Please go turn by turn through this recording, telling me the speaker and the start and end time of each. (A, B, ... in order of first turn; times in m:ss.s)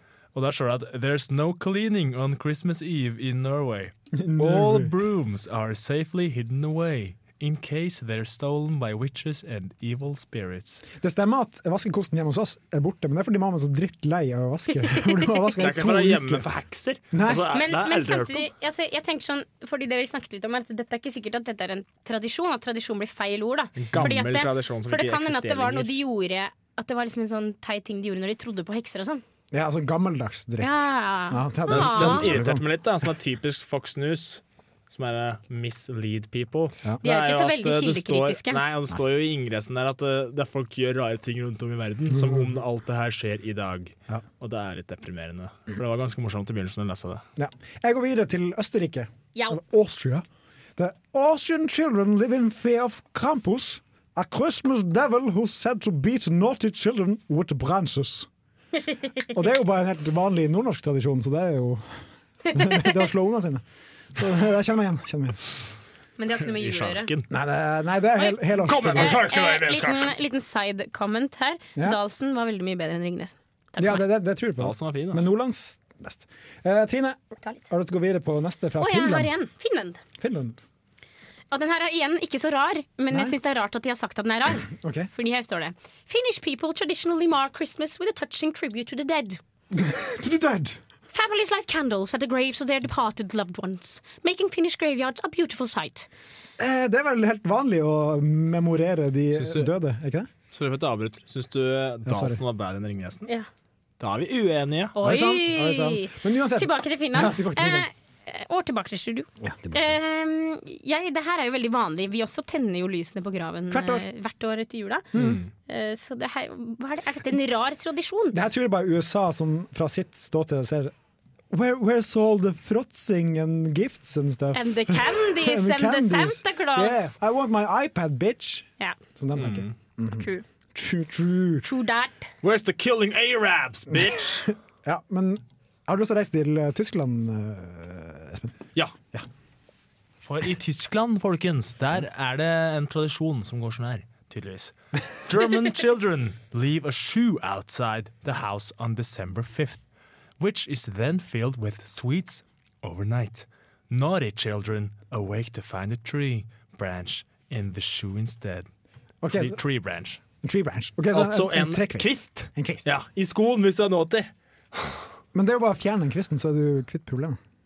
0:00.3-0:10.8 A
0:04.1-0:04.9 B
0:11.0-0:16.5 B
0:15.6-0:18.5 A
0:17.1-0:17.5 B
0:17.5-0:29.2 C
0:23.8-0:25.9 A
0:29.5-0:32.7 B
0:30.6-0:32.4 C
0:31.7-0:47.2 A
0:37.0-0:38.6 C
0:47.4-0:50.2 B
0:49.4-0:49.6 C
0:50.8-0:58.3 B
0:58.9-0:59.2 C
0:59.3-1:02.0 B
1:02.5-1:03.6 B
1:04.2-1:05.4 B
1:06.2-1:07.1 C
1:06.5-1:07.3 A
1:07.3-1:09.3 B
1:08.2-1:14.0 C
1:08.6-1:10.1 A
1:13.8-1:19.3 B
1:14.6-1:15.2 A
1:18.8-1:20.0 C
1:20.2-1:20.6 B
1:21.5-1:29.4 C
1:23.1-1:23.4 B
1:24.7-1:25.1 B
1:29.7-1:30.8 B
1:31.1-1:36.1 C
1:36.6-1:40.3 B
1:39.3-1:39.7 A
1:40.5-1:43.3 A
1:42.1-1:42.4 B
1:44.0-1:45.0 A
1:45.0-1:55.1 C
1:45.0-1:47.9 B
1:49.4-1:49.9 B
1:53.7-1:54.0 B
1:55.1-1:55.4 B
1:55.2-1:55.5 A
1:55.7-1:58.4 C
1:58.3-2:00.9 B
2:01.5-2:11.7 B
2:04.5-2:07.2 C
2:09.4-2:09.7 A
2:10.2-2:10.4 C
2:11.6-2:12.3 C
2:12.4-2:14.5 A
2:13.9-2:18.6 B
2:20.2-2:29.8 A
2:30.4-2:38.7 A
2:39.2-2:39.6 B
2:39.3-2:40.2 A
2:40.4-2:43.0 B
2:41.1-2:45.0 A
2:45.3-2:47.4 B